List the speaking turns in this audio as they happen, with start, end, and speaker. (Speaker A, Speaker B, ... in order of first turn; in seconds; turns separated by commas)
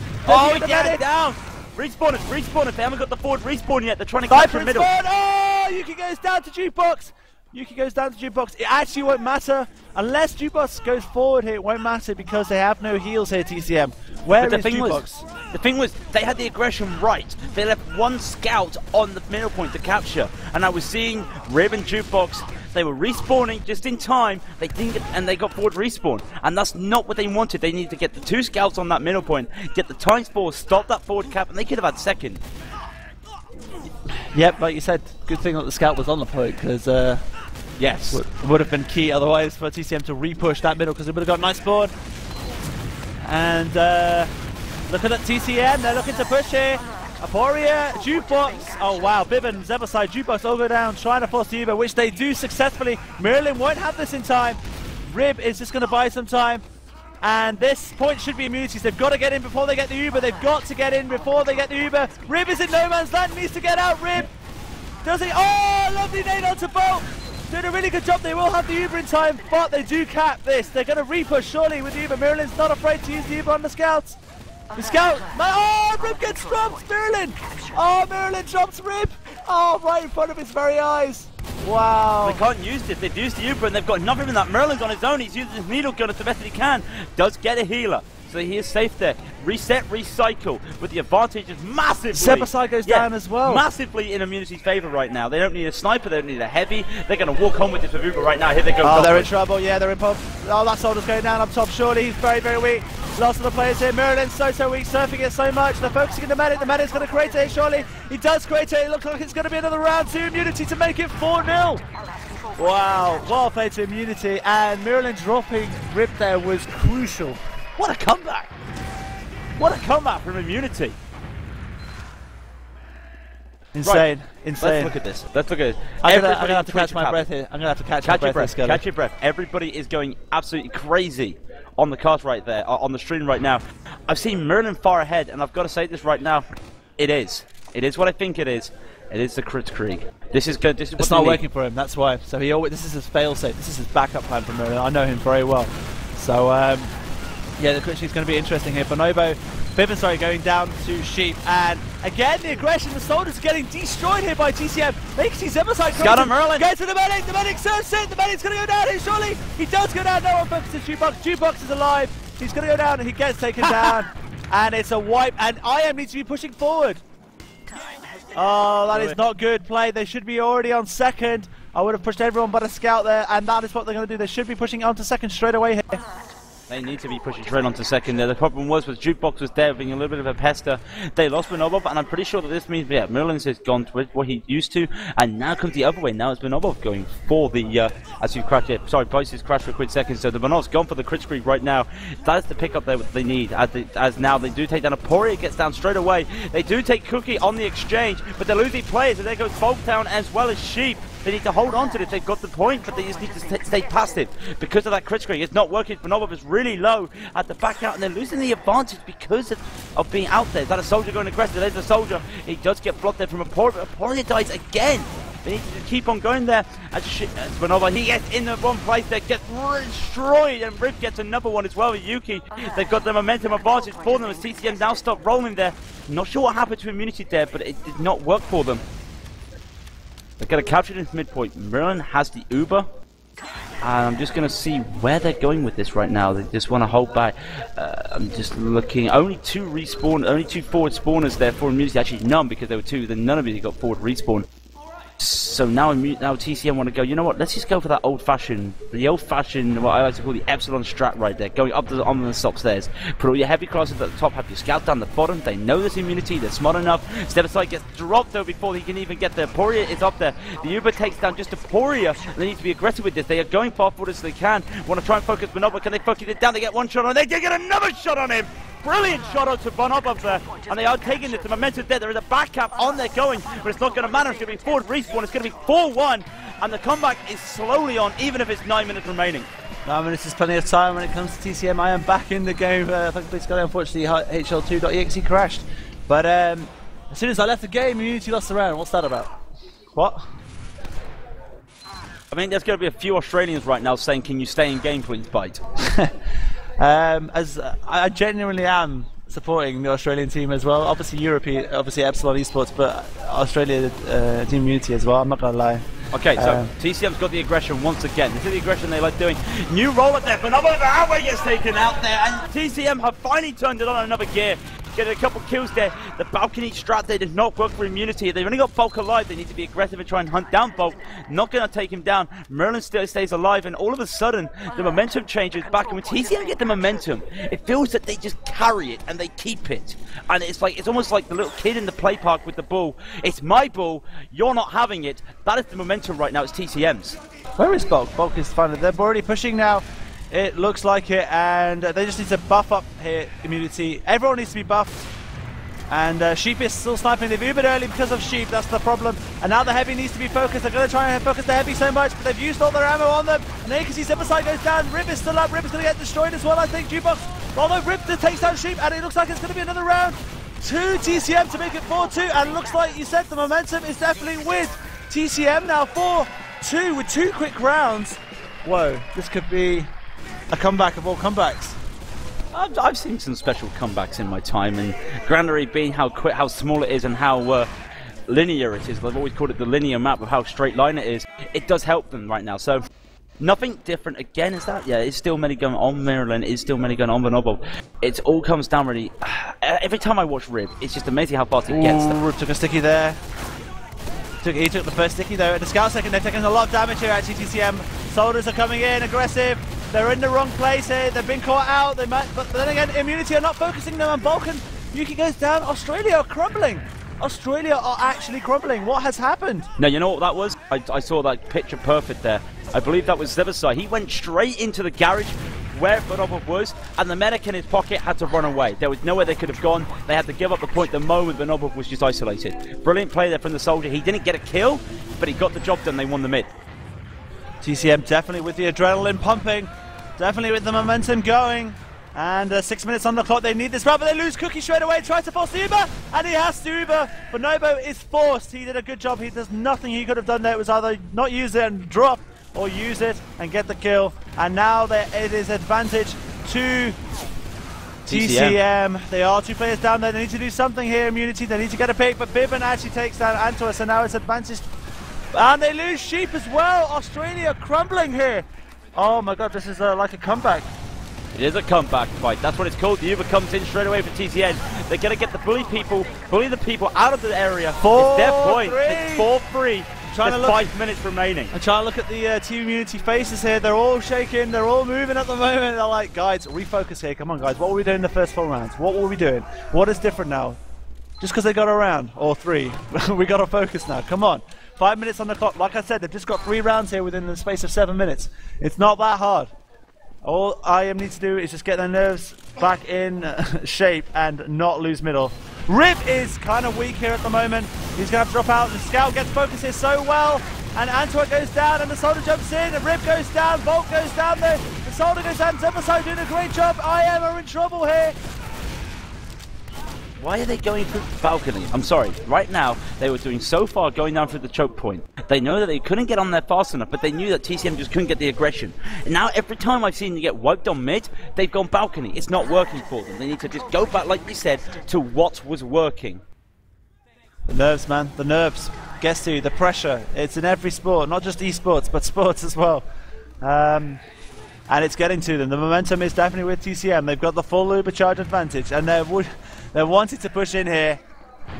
Speaker A: 0.2-1.0, Speaker B: 0.2-4.9, Speaker A: 4.2-15.2, Speaker B: 14.4-32.4, Speaker A: 34.3-37.2, Speaker B: 37.8-38.2, Speaker A: 38.1-41.9, Speaker A: 43.2-44.3, Speaker A: 44.9-56.6, Speaker A: 57.2-64.3, Speaker A: 65.0-74.2, Speaker A: 74.7-82.4, Speaker B: 82.2-99.3, Speaker A: 92.1-93.6, Speaker A: 98.8-111.8, Speaker A: 112.5-117.4, Speaker B: 117.8-118.5, Speaker B: 119.6-121.0, Speaker A: 123.7-124.9, Speaker B: 124.6-127.3, Speaker A: 126.0-128.8, Speaker B: 128.0-136.4, Speaker B: 137.0-141.4, Speaker A: 141.0-146.9, Speaker A: 147.6-167.0, Speaker B: 156.0-156.6, Speaker B: 163.6-164.0, Speaker A: 168.3-176.0, Speaker B: 176.7-228.8, Speaker B: 230.4-232.9, Speaker B: 233.8-244.5, Speaker B: 245.2-279.5, Speaker A: 279.9-289.3, Speaker A: 289.9-290.2, Speaker B: 292.3-295.6, Speaker A: 295.8-296.1, Speaker A: 296.8-305.8, Speaker B: 306.1-337.2, Speaker A: 306.4-306.7, Speaker A: 337.6-345.0, Speaker A: 345.9-369.9, Speaker A: 370.5-371.8, Speaker B: 372.5-377.7, Speaker B: 378.3-382.8, Speaker B: 383.4-392.2, Speaker A: 391.7-393.2, Speaker A: 394.4-409.7, Speaker B: 409.8-426.5, Speaker A: 427.6-446.9, Speaker A: 448.0-454.6, Speaker B: 448.1-448.6, Speaker A: 455.3-460.7, Speaker B: 461.3-471.5, Speaker A: 467.8-469.3, Speaker A: 470.1-470.6, Speaker A: 471.5-480.6, Speaker A: 481.2-489.5, Speaker A: 490.2-508.1, Speaker B: 510.2-526.2, Speaker A: 527.5-532.8, Speaker A: 533.4-534.0, Speaker A: 534.7-541.0